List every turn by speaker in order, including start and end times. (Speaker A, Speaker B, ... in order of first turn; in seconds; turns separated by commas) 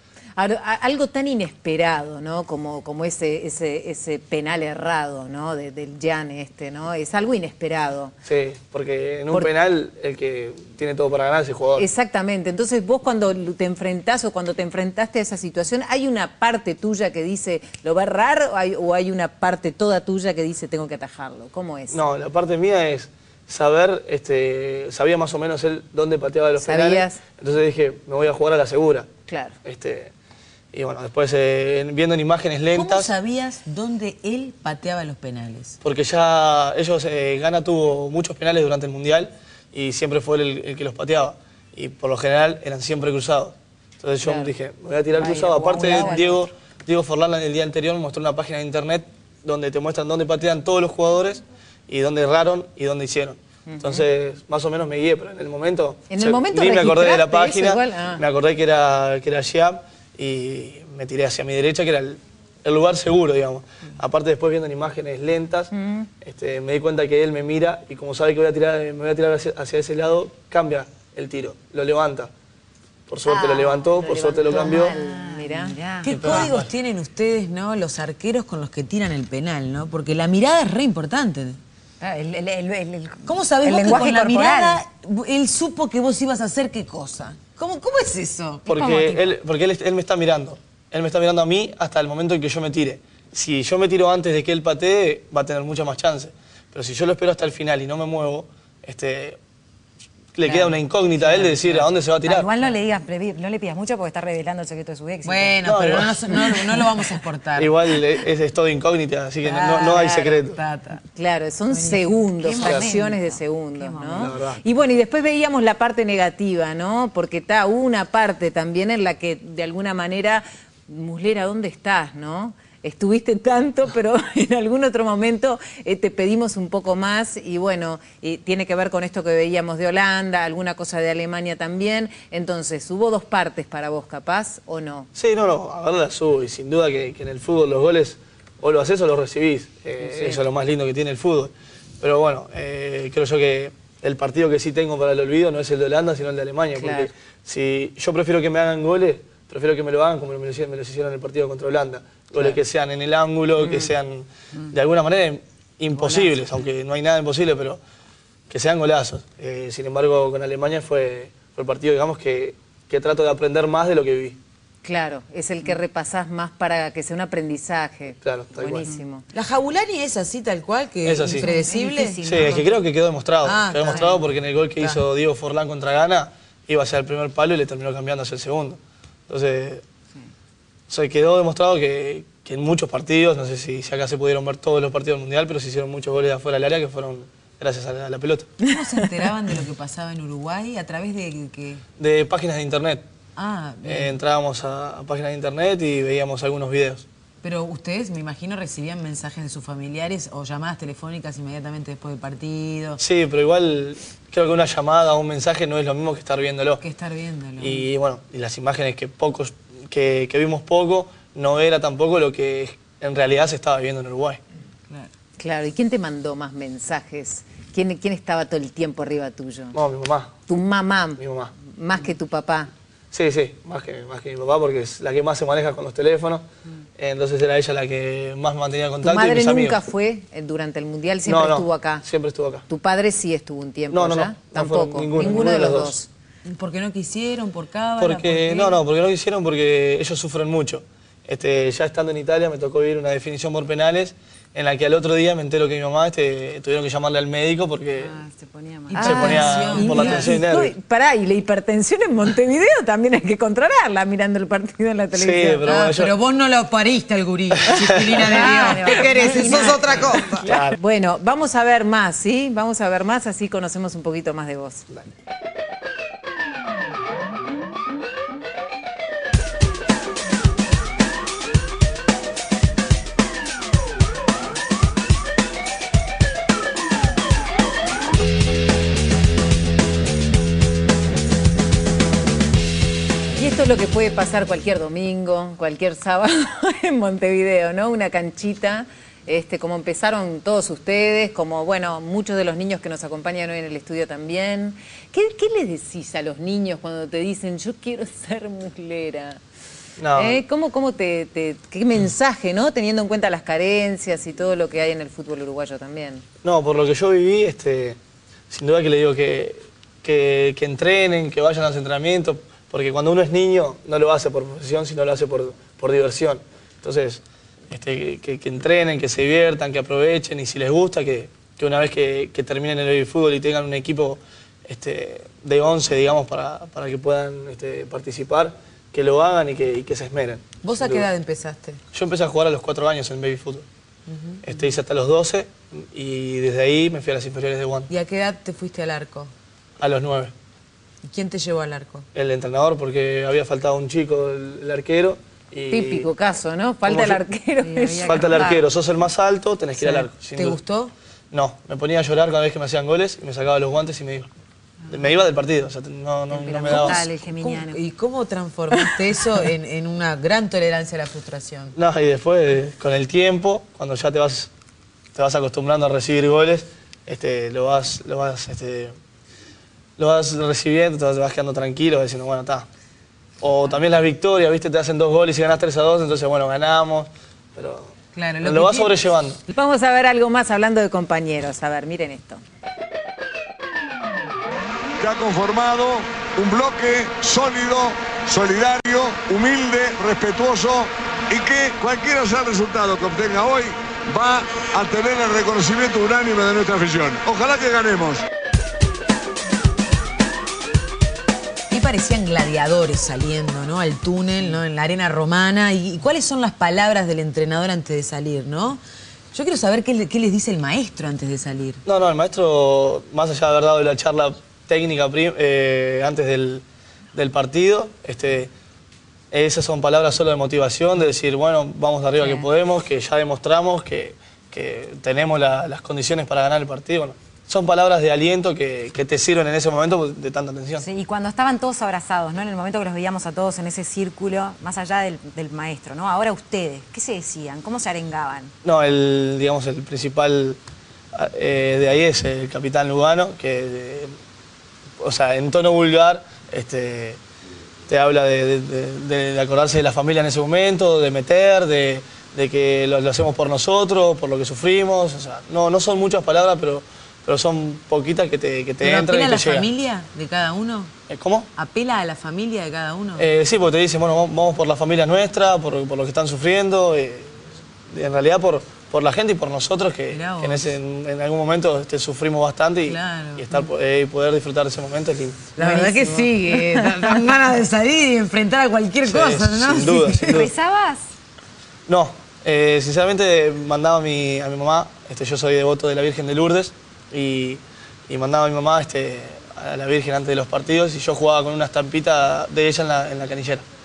Speaker A: 0.4-8.1, Speaker B: 8.3-11.9, Speaker A: 11.8-22.0, Speaker B: 21.9-29.1, Speaker A: 26.6-27.2, Speaker A: 29.3-29.6, Speaker B: 29.6-30.1, Speaker B: 30.7-33.1, Speaker C: 32.7-35.8, Speaker B: 35.8-72.3, Speaker A: 44.2-44.5, Speaker A: 45.1-46.4, Speaker A: 53.7-54.1, Speaker A: 56.1-58.2, Speaker A: 65.7-66.1, Speaker B: 73.1-75.0, Speaker A: 73.3-75.8, Speaker D: 73.5-73.8, Speaker D: 74.4-76.5, Speaker C: 76.0-81.6, Speaker B: 76.1-76.7, Speaker D: 82.0-84.8, Speaker C: 83.2-88.7, Speaker D: 88.7-89.3, Speaker B: 88.7-99.4, Speaker B: 100.3-102.5, Speaker C: 100.5-101.9, Speaker D: 102.2-105.7, Speaker C: 105.2-107.8, Speaker B: 105.6-106.4, Speaker B: 107.6-110.6, Speaker C: 109.4-111.0, Speaker A: 111.1-135.1, Speaker C: 111.7-112.2, Speaker D: 112.4-114.4, Speaker B: 112.6-112.9, Speaker B: 114.2-114.6, Speaker B: 135.2-157.8, Speaker A: 140.0-140.4, Speaker A: 146.8-147.1, Speaker A: 153.6-153.9, Speaker A: 155.9-156.3, Speaker B: 158.5-164.4, Speaker A: 164.8-169.3, Speaker B: 168.2-168.9, Speaker C: 169.3-172.2, Speaker B: 171.0-171.5, Speaker D: 171.4-172.8, Speaker B: 172.2-179.8, Speaker C: 173.4-174.2, Speaker D: 173.8-174.2, Speaker C: 174.8-175.0, Speaker B: 180.9-188.5, Speaker C: 188.6-191.8, Speaker B: 192.0-193.0, Speaker C: 193.4-194.2, Speaker B: 193.8-197.1, Speaker C: 197.4-203.0, Speaker B: 203.0-206.8, Speaker C: 206.8-207.9, Speaker B: 207.6-214.4, Speaker A: 215.4-219.8, Speaker B: 219.7-220.3, Speaker A: 220.5-222.7, Speaker B: 221.2-221.5, Speaker B: 223.1-226.4, Speaker B: 227.0-229.8, Speaker A: 229.0-232.1, Speaker B: 231.2-232.7, Speaker A: 232.7-236.1, Speaker B: 233.9-236.0, Speaker C: 235.2-235.6, Speaker C: 236.5-238.8, Speaker B: 238.0-248.2, Speaker D: 247.9-249.4, Speaker C: 248.9-250.4, Speaker B: 248.9-250.7, Speaker A: 249.1-255.6, Speaker B: 255.1-256.1, Speaker C: 255.6-260.4, Speaker B: 257.6-258.2, Speaker D: 258.2-260.2, Speaker A: 258.4-264.9, Speaker B: 260.4-260.8, Speaker A: 283.4-299.4, Speaker B: 300.0-300.4, Speaker A: 300.2-306.2, Speaker B: 306.4-308.0, Speaker B: 308.5-331.1, Speaker C: 330.6-331.8, Speaker B: 331.9-333.7, Speaker C: 334.1-334.7, Speaker B: 334.4-337.9, Speaker C: 337.9-339.3, Speaker B: 339.8-340.3, Speaker C: 341.1-342.1, Speaker B: 342.1-346.1, Speaker A: 345.7-348.4, Speaker B: 346.9-347.2, Speaker D: 347.6-348.6, Speaker B: 348.0-350.6, Speaker C: 349.8-350.9, Speaker B: 351.3-354.3, Speaker B: 354.9-357.0, Speaker D: 356.3-357.8, Speaker C: 356.7-361.8, Speaker B: 361.8-364.5, Speaker B: 365.1-368.9, Speaker B: 370.0-372.7, Speaker B: 373.4-379.4, Speaker C: 378.1-379.0, Speaker A: 379.5-382.4, Speaker E: 385.0-398.2, Speaker C: 401.7-408.8, Speaker C: 409.3-411.8, Speaker B: 411.9-418.5, Speaker B: 419.3-430.9, Speaker D: 422.2-422.5, Speaker D: 430.8-438.5, Speaker B: 438.6-440.6, Speaker B: 441.1-444.1, Speaker B: 445.0-447.2, Speaker B: 447.9-459.7, Speaker C: 458.8-460.9, Speaker B: 461.1-461.5, Speaker C: 461.6-463.3, Speaker B: 463.2-467.4, Speaker B: 467.9-475.5, Speaker C: 470.1-470.8, Speaker C: 472.8-473.7, Speaker C: 475.6-480.5, Speaker A: 475.6-476.6, Speaker B: 479.1-480.5, Speaker D: 480.2-481.1, Speaker B: 481.9-493.6